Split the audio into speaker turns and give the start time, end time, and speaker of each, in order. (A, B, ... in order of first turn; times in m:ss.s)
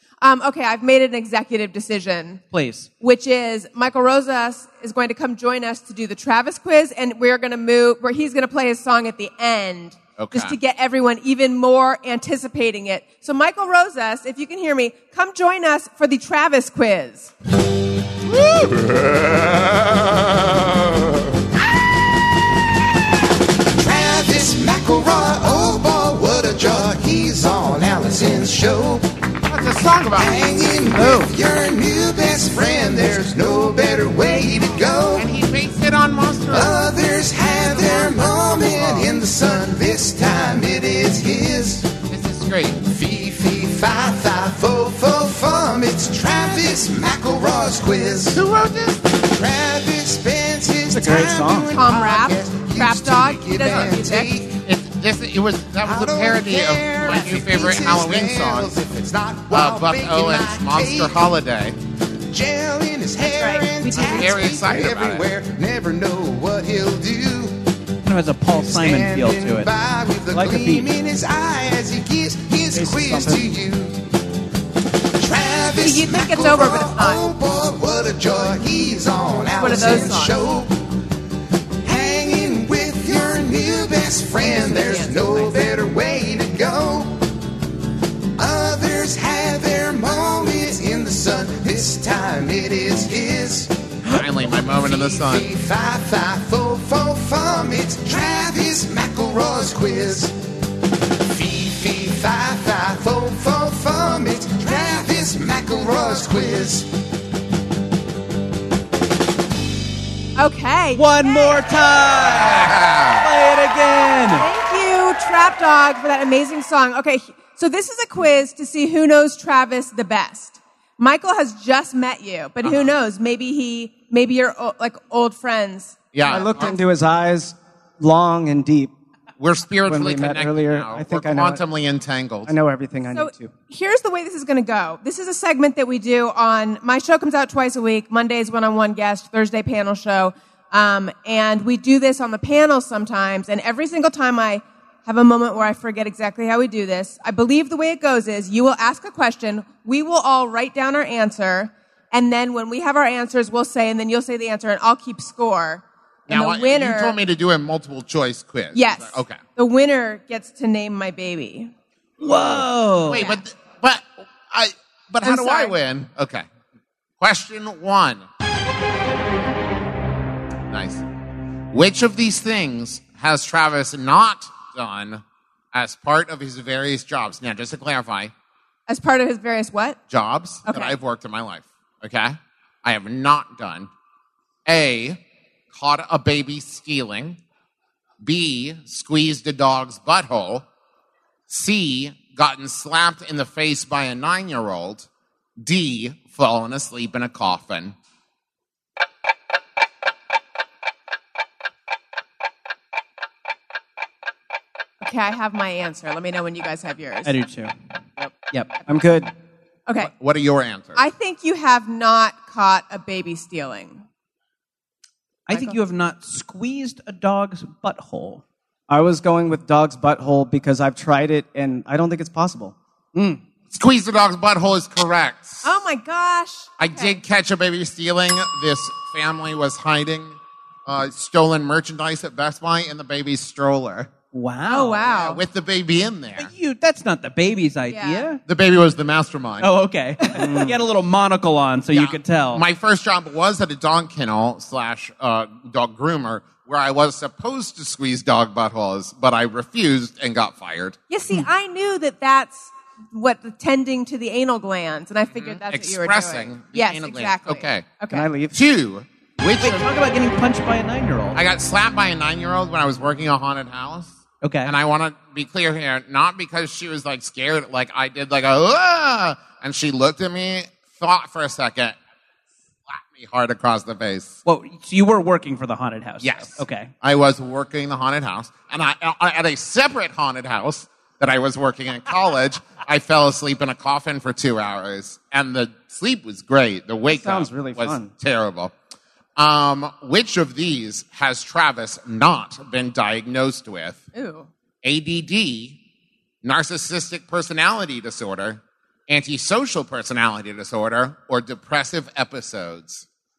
0:00.2-0:02.4 A
0:02.5-0:02.9 B
0:03.0-0:17.3 A
0:10.2-0:10.6 C
0:18.3-0:18.8 C
0:23.7-0:29.1 D
0:29.5-0:30.5 C
0:30.1-0:35.3 D
0:30.9-0:31.3 B
0:35.1-0:36.8 C
0:36.5-0:41.9 D
0:37.8-0:39.1 C
0:42.1-0:42.8 C
0:42.8-0:48.4 D
0:48.3-0:49.0 C
0:49.2-0:54.6 D
0:50.9-0:51.7 E
0:51.7-0:54.3 A
0:53.6-0:53.9 C
0:54.6-0:58.7 C
0:55.8-1:01.2 D
0:57.0-0:57.3 A
0:59.5-1:01.8 C
1:02.3-1:07.6 D
1:03.2-1:04.3 A
1:04.0-1:05.3 C
1:08.0-1:09.7 B
1:08.6-1:14.0 D
1:10.3-1:10.9 E
1:12.7-1:13.5 E
1:15.2-1:20.7 D
1:15.8-1:17.2 A
1:19.6-1:20.4 A
1:21.8-1:27.2 D
1:24.4-1:25.7 A
1:28.4-1:40.3 D
1:34.1-1:35.5 C
1:41.2-1:46.9 D
1:50.4-1:51.7 A
1:50.9-1:54.5 B
1:52.2-1:53.3 C
1:54.3-2:06.7 A
2:02.6-2:02.9 C
2:06.1-2:06.8 C
2:06.2-2:08.9 E
2:09.4-2:12.5 C
2:09.8-2:11.6 E
2:12.4-2:13.5 E
2:13.1-2:37.2 A
2:36.3-2:39.4 C
2:38.7-2:41.7 A
2:42.2-2:43.3 B
2:42.2-2:46.4 C
2:43.1-2:43.4 A
2:45.2-2:45.8 A
2:47.2-2:48.2 C
2:50.7-2:51.0 C
2:51.7-2:58.3 C
2:58.9-3:00.0 A
3:00.1-3:03.9 C
3:00.6-3:01.0 A
3:04.6-3:05.2 C
3:05.7-3:07.4 C
3:08.2-3:10.6 C
3:11.5-3:15.1 C
3:15.6-3:17.9 C
3:25.0-3:27.3 A
3:27.2-3:27.7 B
3:28.8-3:29.3 E
3:29.9-3:30.1 A
3:30.0-3:31.0 C
3:30.9-3:34.0 A
3:35.5-3:38.4 B
3:35.5-3:35.8 A
3:38.9-3:42.7 E
3:43.1-3:43.4 B
3:43.7-3:45.8 C
3:45.6-3:47.2 A
3:46.8-3:54.1 C
3:54.3-3:55.1 B
3:54.7-3:55.4 A
3:55.1-3:56.5 C
3:56.4-3:58.4 B
3:57.9-3:58.3 A
3:58.4-3:59.7 C
3:59.6-4:02.6 B
4:00.4-4:00.8 E
4:01.9-4:11.0 C
4:11.1-4:18.3 A
4:15.3-4:17.9 C
4:18.1-4:18.6 E
4:18.5-4:19.9 C
4:19.6-4:21.4 B
4:21.3-4:32.0 C
4:24.4-4:24.7 B
4:32.9-4:34.4 C
4:34.4-4:36.9 B
4:36.2-4:48.7 C
4:47.1-4:48.1 E
4:49.4-4:54.0 C
4:54.1-4:54.5 A
4:54.8-4:55.8 C
4:56.4-5:03.0 C